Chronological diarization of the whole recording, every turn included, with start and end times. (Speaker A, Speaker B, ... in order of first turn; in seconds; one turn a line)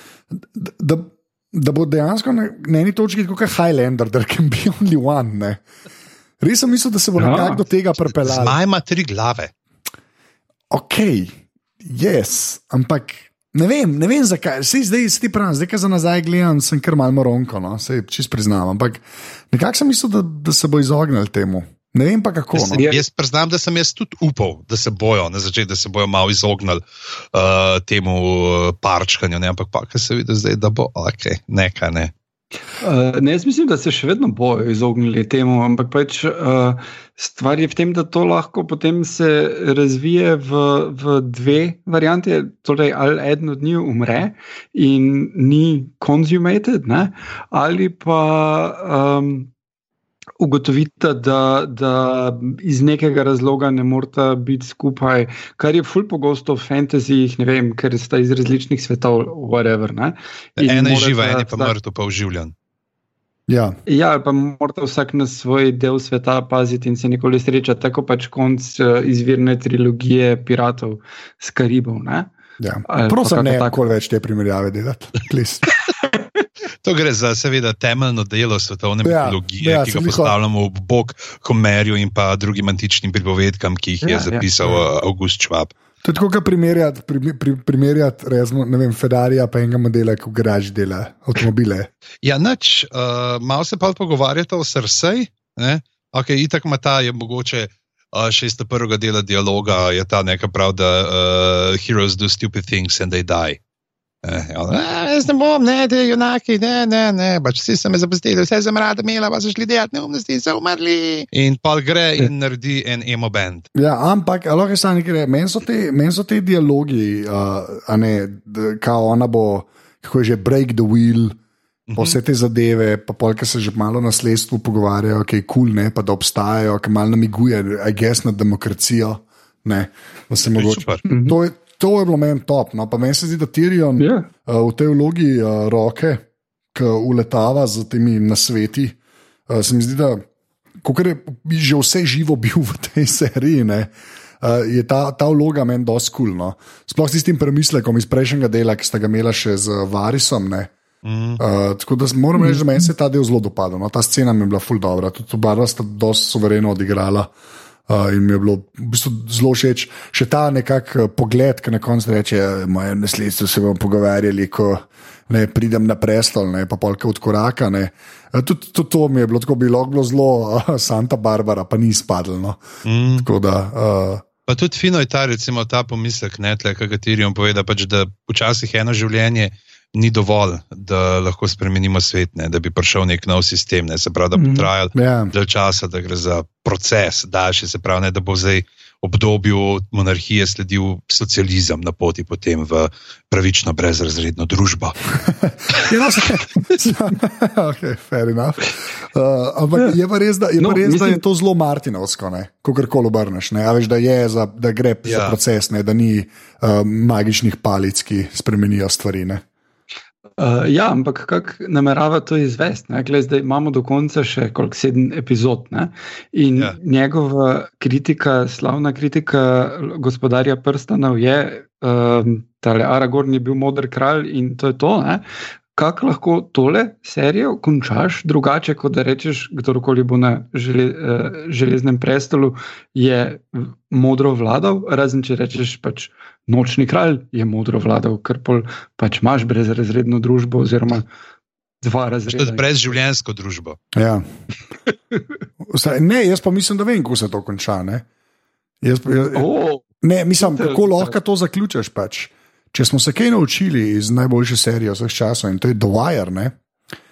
Speaker A: 0.3-5.6
Speaker A: 6.4-8.6
Speaker B: 7.2-7.6
Speaker C: 8.1-9.5
Speaker A: 10.7-22.8
Speaker B: 22.6-23.0
Speaker C: 22.7-26.8
Speaker C: 27.3-32.1
Speaker B: 32.8-49.5
Speaker B: 50.4-61.7
Speaker C: 60.6-62.5
Speaker A: 63.5-63.8
Speaker B: 63.9-72.3
Speaker A: 72.6-75.6
Speaker B: 72.9-73.7
Speaker C: 76.8-85.7
Speaker A: 79.0-80.3
Speaker B: 84.0-84.5
Speaker A: 86.0-91.9
Speaker C: 92.2-103.6
Speaker C: 104.2-113.7
Speaker A: 113.7-121.4
Speaker C: 121.9-122.2
Speaker A: 122.0-139.0
Speaker C: 130.5-131.0
Speaker B: 131.1-131.4
Speaker B: 134.0-134.3
Speaker A: 139.5-140.2
Speaker A: 140.8-150.7
Speaker C: 151.0-151.4
Speaker A: 151.4-157.3
Speaker B: 152.4-152.8
Speaker A: 157.9-172.6
Speaker C: 172.8-173.2
Speaker A: 173.2-174.2
Speaker C: 174.5-194.9
Speaker B: 184.3-184.7
Speaker A: 184.9-185.3
Speaker A: 195.2-209.4
Speaker B: 200.6-201.2
Speaker C: 205.0-205.3
Speaker B: 210.4-225.2
Speaker B: 225.8-241.1
Speaker B: 241.8-242.6
Speaker C: 242.3-243.8
Speaker A: 243.9-244.2
Speaker B: 244.9-245.2
Speaker A: 245.6-248.1
Speaker A: 248.8-249.5
Speaker B: 249.3-249.8
Speaker A: 250.0-256.6
Speaker B: 250.4-251.1